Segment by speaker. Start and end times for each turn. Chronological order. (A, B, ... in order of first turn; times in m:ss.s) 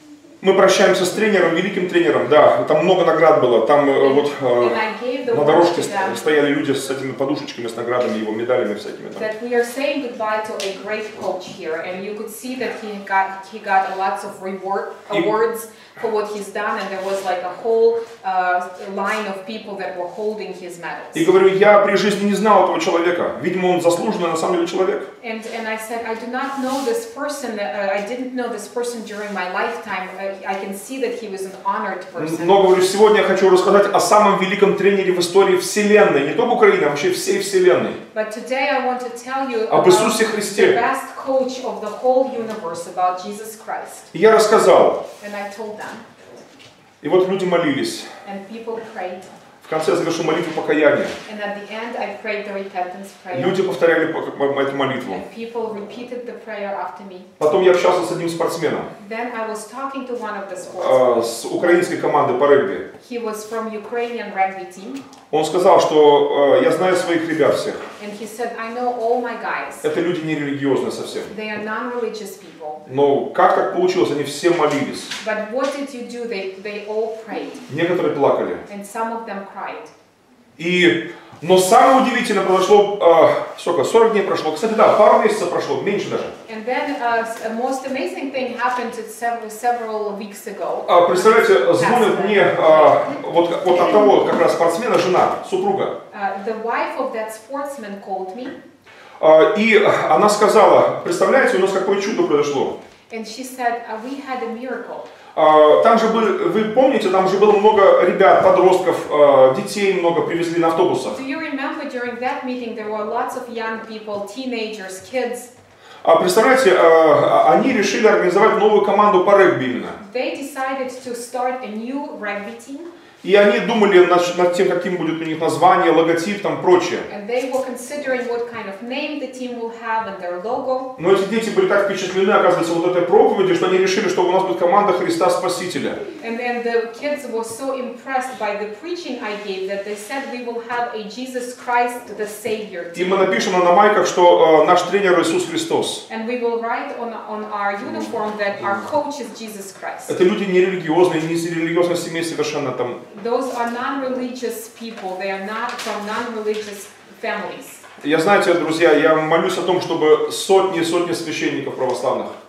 0:00.4-0:09.3 A
0:04.0-0:06.3 B
0:09.2-0:21.3 B
0:21.1-0:25.1 A
0:25.2-0:32.6 B
0:32.2-0:38.0 A
0:38.1-0:44.1 B
0:39.7-0:40.8 A
0:44.1-0:45.0 A
0:45.2-0:46.0 B
0:47.0-0:48.1 A
0:48.2-0:49.3 B
0:49.6-0:51.2 A
0:51.2-0:53.6 B
0:53.3-0:55.2 A
0:55.0-0:57.3 B
0:57.4-0:58.9 A
0:59.0-1:01.6 B
1:00.8-1:02.9 A
1:03.0-1:05.0 B
1:05.3-1:07.8 A
1:08.0-1:09.9 B
1:09.8-1:11.3 A
1:11.3-1:12.8 B
1:12.8-1:15.1 A
1:15.2-1:17.6 B
1:17.7-1:18.6 A
1:18.7-1:19.9 B
1:20.6-1:26.4 A
1:26.5-1:34.2 B
1:30.9-1:36.0 A
1:36.1-1:38.6 B
1:39.2-1:42.8 A
1:43.1-1:45.1 B
1:45.4-1:51.2 A
1:51.1-1:55.5 B
1:56.0-2:00.0 A
2:00.0-2:02.9 B
2:03.2-2:07.1 A
2:07.1-2:10.9 B
2:11.0-2:16.0 A
2:16.2-2:23.4 B
2:23.0-2:26.0 A
2:26.1-2:30.2 B
2:27.8-2:28.8 A
2:30.1-2:33.0 A
2:33.1-2:37.8 B
2:38.0-2:42.4 A